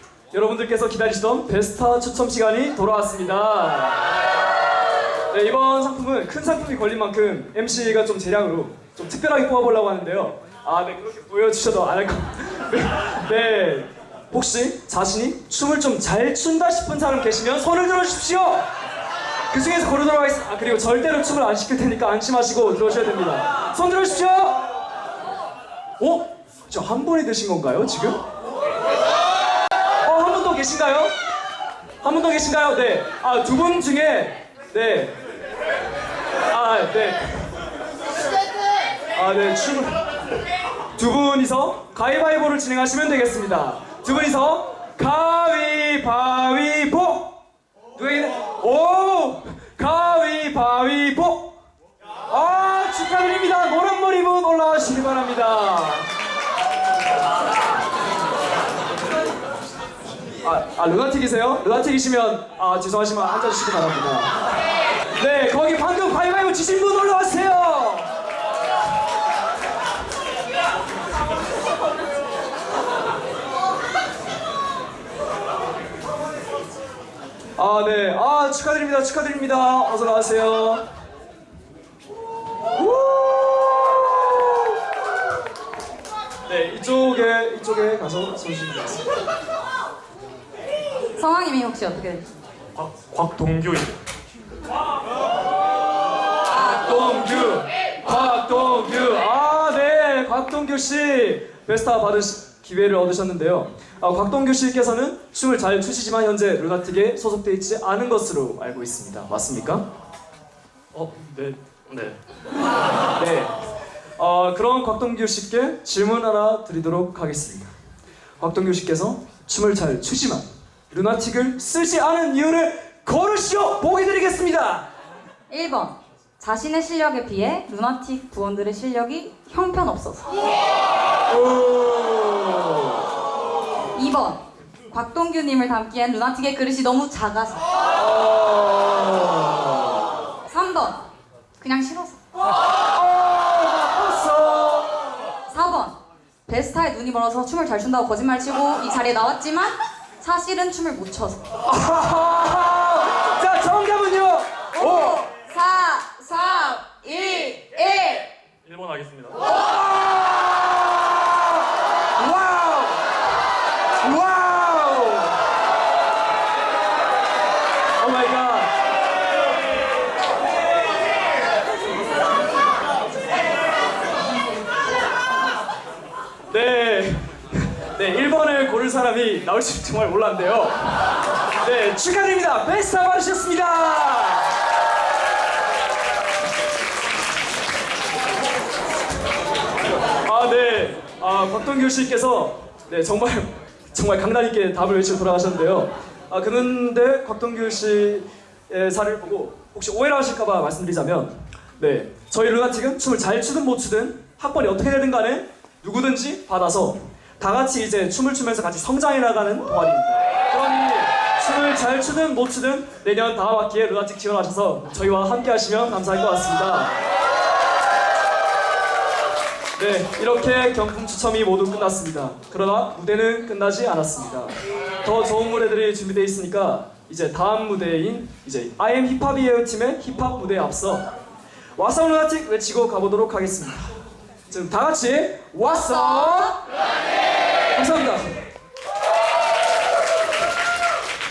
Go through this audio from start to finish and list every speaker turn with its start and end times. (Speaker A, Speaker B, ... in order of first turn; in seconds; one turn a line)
Speaker A: 0.3-4.1
Speaker A: 5.3-18.7
Speaker A: 19.5-24.6
Speaker A: 26.0-28.2
Speaker A: 30.0-31.1
Speaker A: 32.0-35.1
Speaker A: 36.5-37.5
Speaker A: 39.1-39.9
Speaker A: 41.0-47.4
Speaker A: 48.0-51.5
Speaker A: 52.3-56.1
Speaker A: 60.4-64.3
Speaker A: 65.1-68.1
Speaker A: 77.5-80.8
Speaker A: 82.7-84.8
Speaker A: 86.5-89.0
Speaker B: 91.2-92.2
Speaker C: 92.7-94.0
Speaker B: 96.5-96.8
Speaker A: 96.6-109.8
Speaker C: 110.9-112.1
Speaker A: 113.2-113.5
Speaker A: 114.2-117.7
Speaker A: 118.4-124.8
Speaker B: 125.5-130.3
Speaker A: 131.3-133.0
Speaker B: 133.9-137.7
Speaker A: 137.9-140.1
Speaker B: 140.5-141.0
Speaker B: 141.6-142.2
Speaker A: 142.8-144.9
Speaker B: 145.5-145.9
Speaker B: 146.5-151.4
Speaker A: 151.7-155.2
Speaker B: 154.7-158.3
Speaker C: 158.6-159.4
Speaker A: 159.5-161.6
Speaker A: 162.2-163.0
Speaker A: 164.0-165.4
Speaker A: 168.0-168.7
Speaker A: 176.5-184.5
Speaker A: 190.2-216.9
Speaker A: 219.8-231.0
Speaker A: 231.8-233.8
Speaker A: 234.5-236.6
Speaker A: 237.7-238.3